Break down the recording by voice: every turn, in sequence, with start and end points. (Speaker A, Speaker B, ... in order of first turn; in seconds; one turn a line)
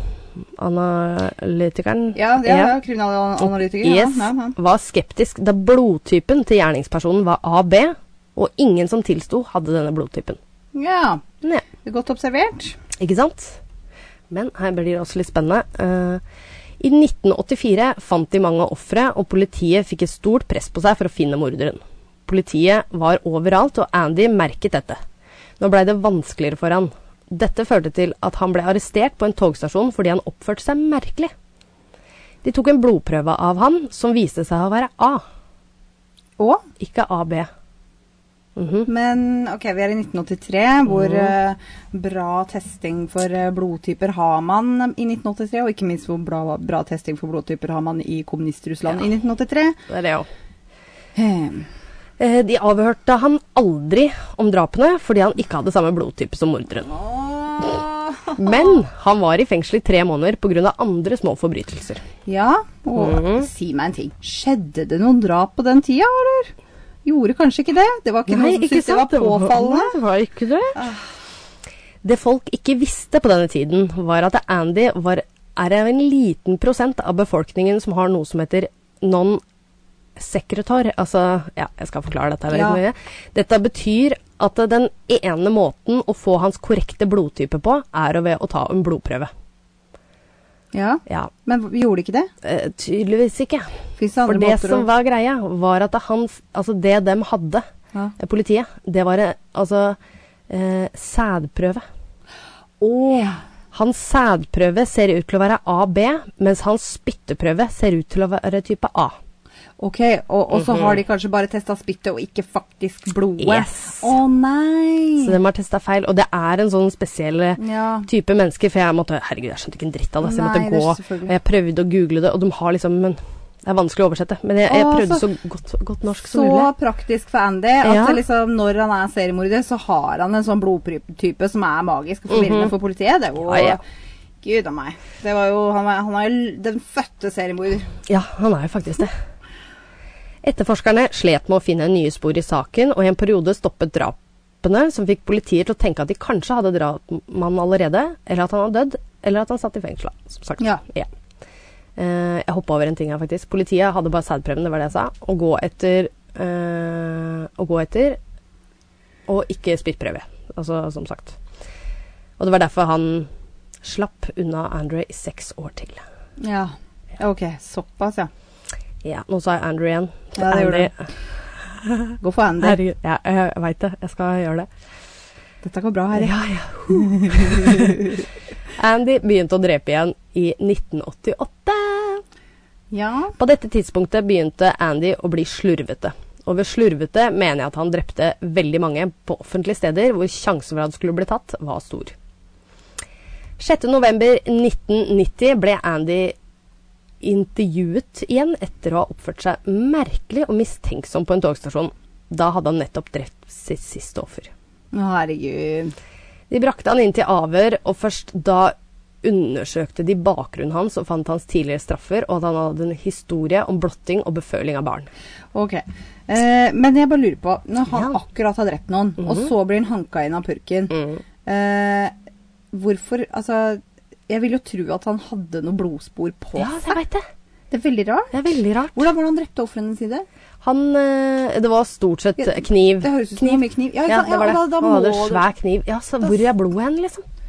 Speaker A: 0.4-2.8
Speaker B: 2.1-4.6
Speaker A: 3.4-10.4
Speaker B: 10.7-11.2
Speaker B: 11.8-12.8
Speaker A: 13.0-13.6
Speaker A: 14.3-16.2
Speaker A: 16.8-25.0
Speaker A: 25.6-31.3
Speaker A: 32.4-35.2
Speaker B: 36.4-36.6
Speaker A: 36.8-37.5
Speaker A: 38.6-38.9
Speaker B: 38.9-49.8
Speaker A: 40.9-41.3
Speaker A: 49.9-50.3
Speaker B: 51.1-51.7
Speaker A: 52.2-57.0
Speaker B: 56.9-58.8
Speaker A: 58.4-62.0
Speaker B: 62.3-66.5
Speaker A: 63.0-63.5
Speaker B: 67.0-70.0
Speaker A: 68.3-71.0
Speaker B: 70.8-71.0
Speaker A: 72.0-79.4
Speaker A: 80.2-89.3
Speaker B: 82.5-82.8
Speaker B: 90.7-92.3
Speaker A: 92.4-93.7
Speaker B: 94.0-94.9
Speaker A: 94.3-97.7
Speaker A: 98.2-100.0
Speaker A: 100.5-101.8
Speaker B: 102.8-103.4
Speaker A: 103.7-109.2
Speaker B: 109.8-115.4
Speaker A: 113.4-114.1
Speaker A: 115.2-126.7
Speaker B: 117.6-118.1
Speaker B: 120.2-121.3
Speaker B: 124.7-125.3
Speaker B: 126.2-133.8
Speaker A: 127.8-128.2
Speaker A: 132.3-132.7
Speaker A: 133.4-133.8
Speaker B: 134.4-137.9
Speaker A: 138.1-139.1
Speaker A: 140.4-151.1
Speaker A: 152.0-158.2
Speaker A: 159.3-161.4
Speaker A: 162.4-163.3
Speaker A: 163.8-166.0
Speaker B: 166.4-168.3
Speaker A: 169.0-171.1
Speaker B: 170.4-170.9
Speaker A: 171.7-174.7
Speaker B: 172.2-172.8
Speaker B: 175.6-176.3
Speaker A: 176.2-178.2
Speaker B: 176.9-178.2
Speaker A: 178.8-182.2
Speaker B: 182.9-183.4
Speaker A: 183.4-192.2
Speaker A: 193.6-196.3
Speaker A: 197.2-204.5
Speaker B: 204.9-205.9
Speaker A: 206.5-215.1
Speaker B: 215.5-222.1
Speaker A: 220.9-221.2
Speaker B: 222.7-227.0
Speaker A: 226.6-227.3
Speaker B: 227.7-228.3
Speaker A: 228.3-229.1
Speaker B: 228.9-230.3
Speaker A: 230.6-237.2
Speaker B: 232.4-235.4